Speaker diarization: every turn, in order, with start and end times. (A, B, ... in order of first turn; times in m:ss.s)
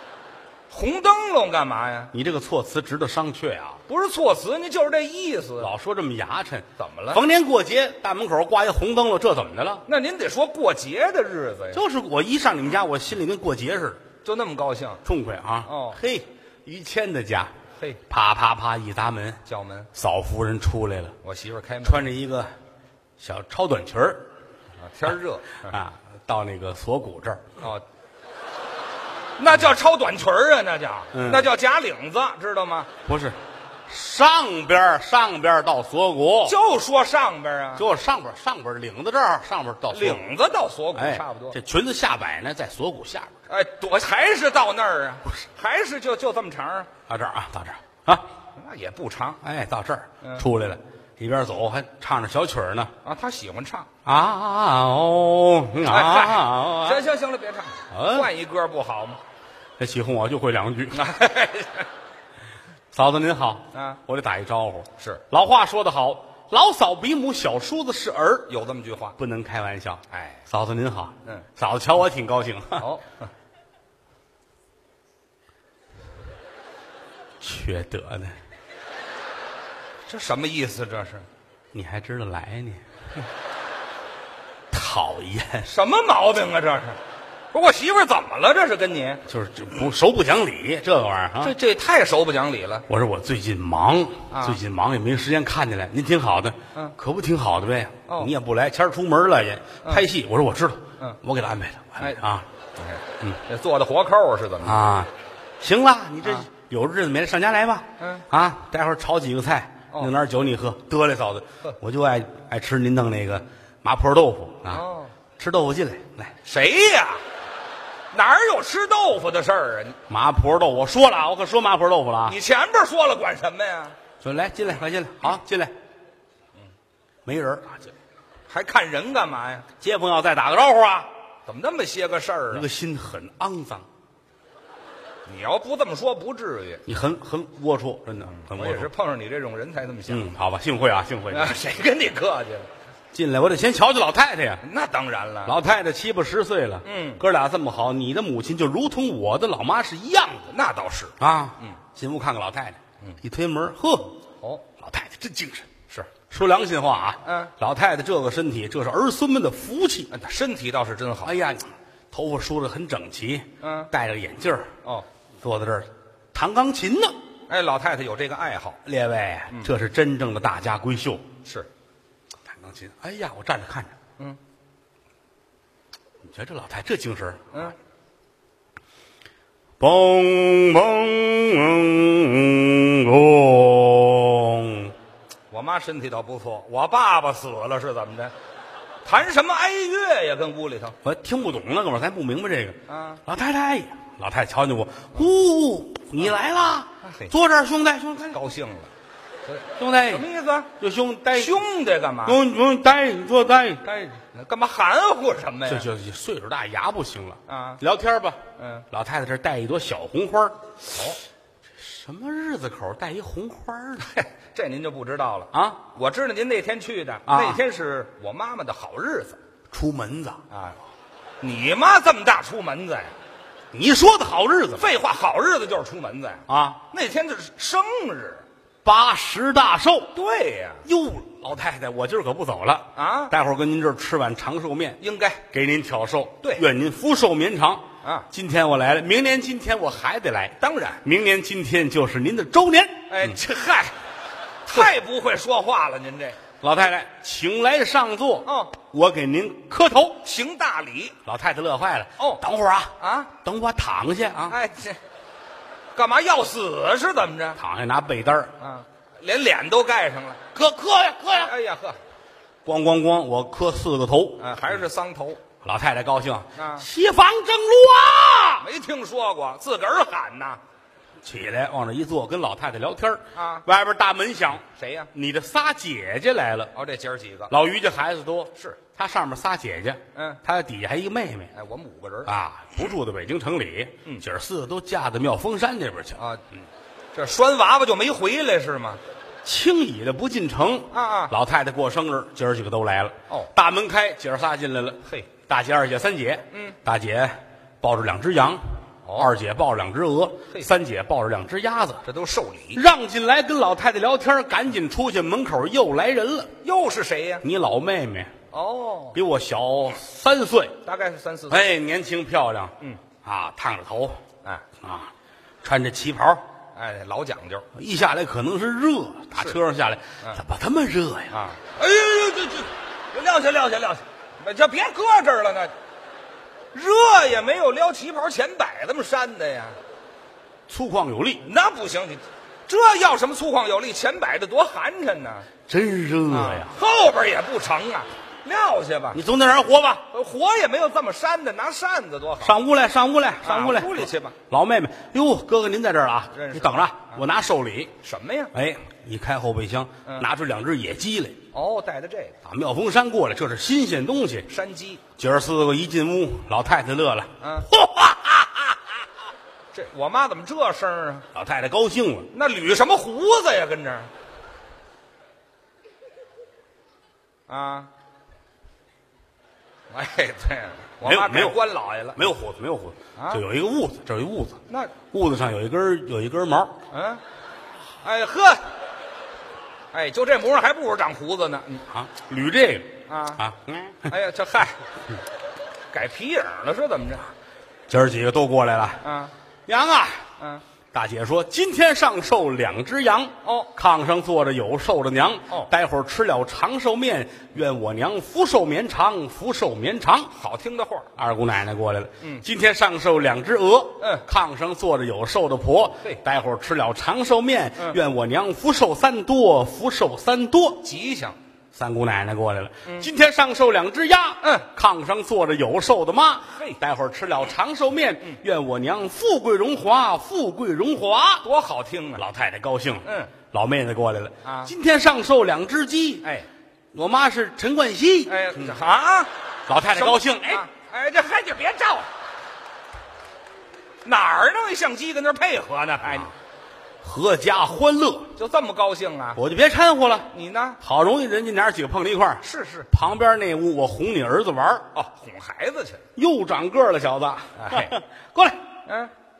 0:00.7-0:02.1 A
0:02.1-0:03.8 B
0:03.9-0:05.7 A
0:05.6-0:09.8 B
0:06.8-0:07.2 A
0:09.9-0:11.8 A
0:11.7-0:14.0 B
0:14.2-0:15.0 A
0:15.0-0:17.5 B
0:15.6-0:16.0 A
0:18.1-0:19.4 B
0:19.4-0:19.9 A
0:19.9-0:21.2 B
0:21.2-0:22.1 A
0:21.8-0:22.5 B
0:23.2-0:24.3 B
0:24.8-0:25.8 A
0:25.7-0:27.5 B
0:29.4-0:32.9 A
0:31.1-0:31.5 B
0:33.0-0:36.6 B
0:36.4-0:37.8 A
0:37.8-0:40.2 B
0:39.9-0:41.6 A
0:40.9-0:43.3 B
0:43.5-0:46.9 A
0:47.1-0:48.3 B
0:48.6-0:49.4 A
0:49.4-0:52.9 B
0:53.0-0:53.9 A
0:54.0-0:57.0 B
0:55.8-0:59.2 A
0:57.9-0:58.3 B
0:59.8-1:01.0 B
1:00.9-1:01.9 A
1:02.9-1:08.5 B
1:03.7-1:04.0 A
1:08.5-1:09.2 A
1:09.2-1:12.8 B
1:10.1-1:10.4 A
1:12.8-1:13.3 A
1:17.4-1:18.4 B
1:20.1-1:21.2 A
1:21.7-1:22.8 B
1:24.7-1:25.7 B
1:25.7-1:27.0 A
1:27.5-1:29.2 A
1:29.3-1:31.5 B
1:31.4-1:32.8 A
1:32.9-1:42.5 B
1:34.3-1:34.6 A
1:42.8-1:44.8 A
1:44.6-1:45.1 B
1:45.6-1:54.8 B
1:48.0-1:48.2 A
1:54.7-1:55.1 A
1:55.4-1:56.4 B
1:56.4-1:57.2 A
1:58.1-2:00.0 A
2:00.1-2:02.4 B
2:02.2-2:04.0 A
2:04.2-2:05.7 B
2:07.2-2:07.9 B
2:08.5-2:09.6 A
2:09.8-2:11.1 B
2:11.5-2:12.7 A
2:12.5-2:13.9 B
2:15.3-2:16.8 A
2:16.8-2:18.9 B
2:18.2-2:20.3 A
2:20.1-2:21.6 B
2:21.3-2:22.7 A
2:23.1-2:24.6 B
2:24.6-2:25.6 A
2:25.4-2:30.5 B
2:26.8-2:27.2 A
2:30.5-2:31.8 A
2:31.2-2:34.2 B
2:34.8-2:35.7 B
2:36.3-2:40.1 B
2:37.2-2:37.5 A
2:40.1-2:41.3 A
2:41.2-2:44.7 B
2:43.6-2:43.9 A
2:45.4-2:47.2 B
2:47.5-2:48.8 A
2:48.8-2:51.2 B
2:51.4-2:51.7 A
2:52.5-2:53.9 B
2:56.2-2:57.6 B
2:59.8-3:04.9 B
3:05.5-3:08.3 A
3:09.0-3:11.0 A
3:11.0-3:18.4 B
3:12.9-3:13.2 A
3:17.0-3:17.3 A
3:18.3-3:18.9 A
3:19.4-3:20.7 A
3:19.8-3:20.2 B
3:20.8-3:21.6 B
3:21.3-3:22.4 A
3:22.2-3:24.0 B
3:23.9-3:25.9 A
3:25.7-3:30.7 B
3:27.5-3:27.8 A
3:28.6-3:28.8 A
3:30.9-3:31.2 A
3:31.8-3:34.1 B
3:34.0-3:39.4 A
3:35.5-3:35.8 B
3:37.3-3:37.6 B
3:39.7-3:40.4 B
3:40.5-3:40.8 A
3:41.4-3:43.1 A
3:43.7-3:44.9 B
3:44.8-3:48.4 A
3:46.5-3:46.8 B
3:48.8-3:50.1 B
3:50.1-3:50.8 A
3:50.8-4:03.4 B
3:52.9-3:53.3 A
3:55.0-3:55.4 A
3:58.0-3:58.3 A
4:00.6-4:01.0 A
4:03.1-4:03.9 A
4:04.6-4:06.4 A
4:06.6-4:10.2 B
4:08.4-4:08.7 A
4:10.2-4:11.2 A
4:11.2-4:14.6 B
4:13.0-4:13.3 A
4:14.5-4:15.0 A
4:15.9-4:17.6 A
4:17.6-4:18.5 B
4:18.6-4:20.4 A
4:20.5-4:21.5 B
4:21.3-4:22.0 A
4:22.6-4:24.6 B
4:24.4-4:25.4 A
4:25.6-4:28.7 B
4:26.6-4:26.9 A
4:28.6-4:30.6 A
4:31.2-4:36.7 B
4:33.3-4:33.6 A
4:34.8-4:35.1 A
4:36.7-4:37.5 A
4:37.5-4:41.5 B
4:40.1-4:40.4 A
4:41.5-4:42.3 A
4:42.2-4:46.2 B
4:46.2-4:46.4 A
4:47.1-4:49.0 A
4:49.4-4:58.6 B
4:50.9-4:51.3 A
4:56.5-4:56.8 A
4:59.0-4:59.3 A
4:59.2-5:02.0 B
5:02.0-5:02.8 A
5:02.7-5:06.5 B
5:06.6-5:07.4 A
5:07.4-5:08.3 B
5:08.5-5:09.2 A
5:09.1-5:10.8 B
5:10.8-5:11.7 A
5:11.5-5:14.2 B
5:14.8-5:15.1 B
5:15.6-5:16.4 B
5:16.7-5:17.7 A
5:17.7-5:21.3 B
5:21.3-5:25.7 A
5:26.7-5:29.8 A
5:30.7-5:31.4 B
5:31.4-5:35.5 A
5:35.7-5:36.7 B
5:36.3-5:39.2 A
5:39.1-5:40.0 B
5:40.1-5:42.6 A
5:42.4-5:47.9 B
5:43.4-5:44.4 A
5:46.3-5:47.2 A
5:48.0-5:48.5 A
5:48.5-5:51.4 B
5:51.5-5:52.4 A
5:52.4-5:54.5 B
5:54.5-5:55.0 A
5:55.2-5:58.8 B
5:57.4-5:57.7 A
5:59.7-6:01.3 A
6:01.3-6:02.3 B
6:02.3-6:04.1 A
6:07.5-6:07.9 A
6:09.9-6:12.2 A
6:11.0-6:11.6 B
6:12.1-6:14.6 B
6:13.2-6:13.4 A
6:14.7-6:14.9 A
6:15.1-6:16.8 B
6:16.9-6:17.2 A
6:18.0-6:18.7 A
6:19.9-6:21.8 A
6:21.9-6:24.1 B
6:23.1-6:23.4 A
6:24.1-6:24.8 A
6:25.9-6:27.2 A
6:27.9-6:29.0 B
6:29.0-6:29.3 A
6:29.7-6:30.3 B
6:30.9-6:40.3 B
6:33.4-6:33.7 A
6:40.3-6:41.1 A
6:41.2-6:50.8 B
6:44.0-6:44.2 A
6:50.8-6:51.4 A
6:51.7-7:01.4 B
6:54.4-6:54.7 A
7:01.4-7:02.2 A
7:02.2-7:06.2 B
7:03.0-7:03.3 A
7:04.4-7:04.7 A
7:06.9-7:08.7 B
7:08.3-7:09.3 A
7:09.7-7:10.6 B
7:09.9-7:12.1 A
7:14.0-7:16.3 A
7:17.0-7:18.3 B
7:18.4-7:19.4 A
7:19.4-7:24.9 B
7:20.3-7:20.8 A
7:22.4-7:22.9 A
7:24.9-7:26.0 A
7:26.2-7:28.6 B
7:27.5-7:28.0 A
7:28.8-7:29.1 A